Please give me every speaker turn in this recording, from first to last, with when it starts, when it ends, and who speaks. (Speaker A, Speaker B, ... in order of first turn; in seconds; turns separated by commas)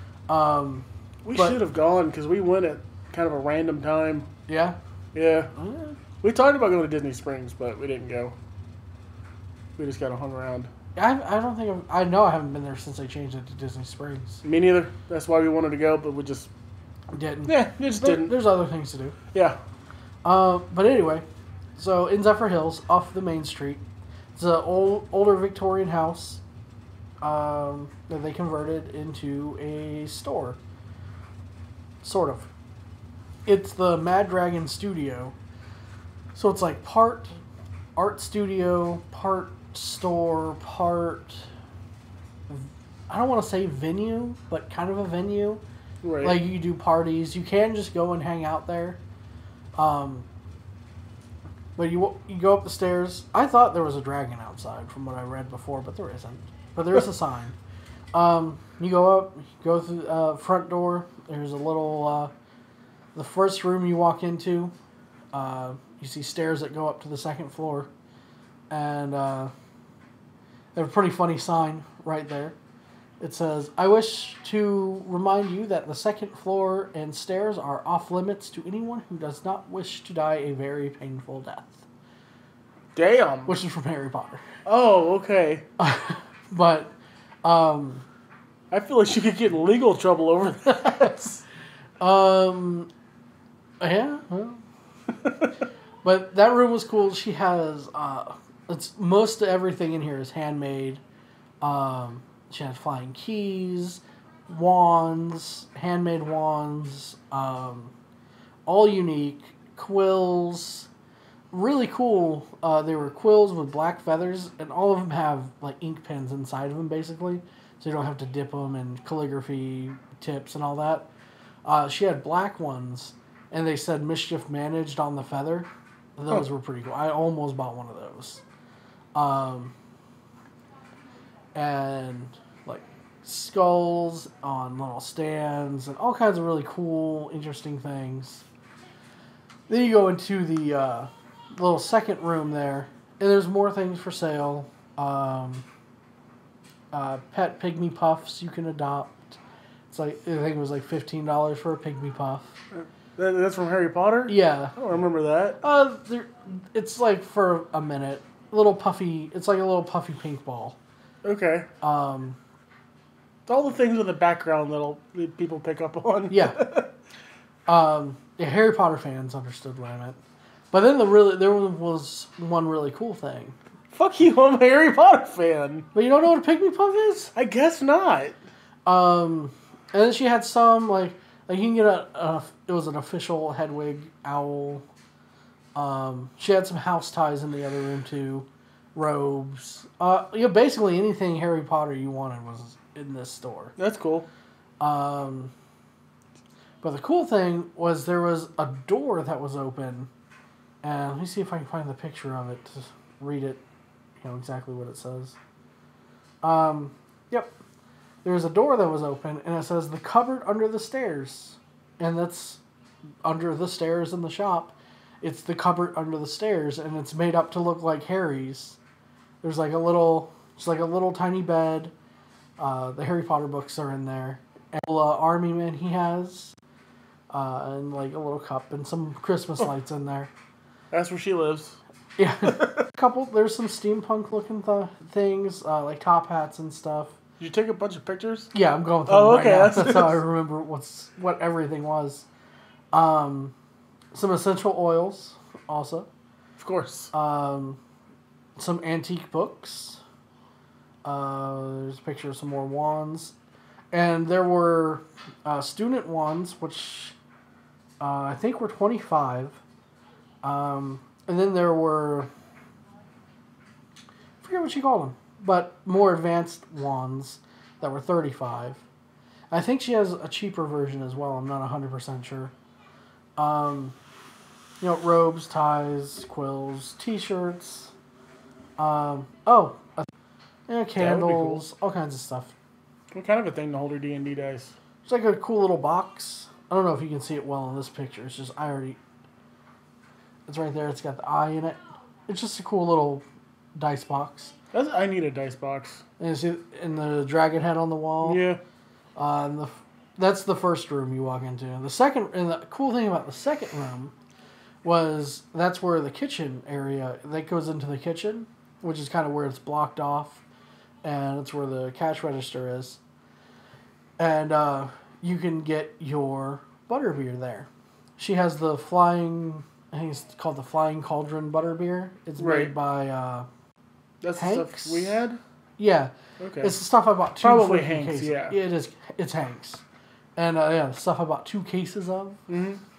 Speaker A: 0.3-1.6, Speaker B: 1.2-4.3, Speaker A: 4.5-4.8, Speaker B: 5.1-5.5, Speaker A: 5.5-6.0, Speaker B: 6.2-8.3, Speaker B: 9.8-10.7, Speaker A: 11.0-14.4, Speaker B: 14.4-16.5, Speaker A: 17.1-19.1, Speaker B: 17.5-18.4, Speaker B: 19.3-19.6, Speaker A: 20.2-21.2, Speaker A: 21.8-23.8, Speaker A: 24.4-26.4, Speaker A: 27.2-30.6, Speaker A: 32.0-32.5, Speaker A: 33.5-35.4, Speaker A: 36.4-37.4, Speaker A: 38.0-41.5, Speaker A: 42.5-45.6, Speaker B: 46.0-46.4, Speaker A: 46.2-49.0, Speaker A: 49.8-50.3, Speaker A: 51.8-57.5, Speaker A: 58.1-62.3, Speaker A: 63.1-64.7, Speaker A: 65.3-67.9, Speaker A: 68.7-69.5, Speaker A: 70.8-72.6, Speaker A: 73.2-81.8, Speaker B: 83.0-83.5, Speaker A: 83.5-84.4, Speaker B: 84.7-85.7, Speaker A: 85.8-86.9, Speaker A: 87.4-88.0, Speaker B: 88.7-91.4, Speaker A: 90.7-91.2, Speaker A: 92.0-92.9, Speaker A: 93.8-94.6, Speaker A: 96.0-101.0, Speaker A: 101.6-107.9, Speaker A: 108.7-110.9, Speaker A: 111.5-121.1, Speaker A: 121.7-128.4, Speaker A: 129.2-129.7, Speaker A: 131.6-138.4, Speaker A: 139.7-145.7, Speaker A: 146.9-149.4, Speaker A: 149.9-152.5, Speaker B: 152.7-155.6, Speaker A: 154.3-154.7, Speaker A: 155.6-160.8, Speaker B: 161.2-161.7, Speaker A: 161.8-162.4, Speaker B: 163.5-166.9, Speaker A: 166.3-166.6, Speaker A: 167.7-170.2, Speaker A: 170.7-173.6, Speaker B: 173.9-175.9, Speaker A: 175.9-177.3, Speaker B: 177.3-178.4, Speaker A: 178.9-184.8, Speaker A: 185.8-193.8, Speaker B: 193.8-194.3, Speaker A: 194.8-195.5, Speaker A: 196.8-200.1, Speaker A: 200.8-203.6, Speaker A: 204.2-205.4, Speaker A: 206.4-207.5, Speaker A: 208.2-212.6, Speaker A: 213.2-218.8, Speaker A: 219.4-221.9, Speaker A: 222.6-226.6, Speaker A: 227.3-230.3, Speaker B: 230.9-231.8, Speaker A: 232.2-237.2, Speaker B: 237.4-238.5, Speaker A: 238.5-242.3, Speaker B: 239.1-240.2, Speaker A: 242.9-243.5, Speaker A: 244.1-246.1, Speaker B: 246.6-247.1, Speaker A: 247.1-247.8, Speaker A: 248.6-250.0, Speaker A: 251.1-253.3, Speaker A: 253.9-257.1, Speaker A: 258.0-259.6, Speaker A: 260.4-262.3, Speaker A: 264.4-268.8, Speaker A: 269.5-272.5, Speaker A: 273.4-274.0, Speaker A: 274.8-277.9, Speaker A: 278.8-280.1, Speaker A: 280.7-282.5, Speaker B: 281.0-281.6, Speaker B: 283.1-284.7, Speaker A: 285.1-289.0, Speaker A: 290.5-293.2, Speaker A: 293.8-294.5, Speaker B: 294.7-296.0, Speaker A: 296.2-298.4, Speaker B: 298.2-298.6, Speaker A: 299.2-304.1, Speaker A: 304.8-310.4, Speaker A: 311.0-313.0, Speaker A: 314.2-323.5, Speaker B: 322.4-322.7, Speaker B: 324.2-325.4, Speaker A: 324.4-325.2, Speaker A: 325.8-329.8, Speaker B: 326.4-326.8, Speaker B: 327.4-328.6, Speaker A: 330.4-332.4, Speaker B: 332.5-332.8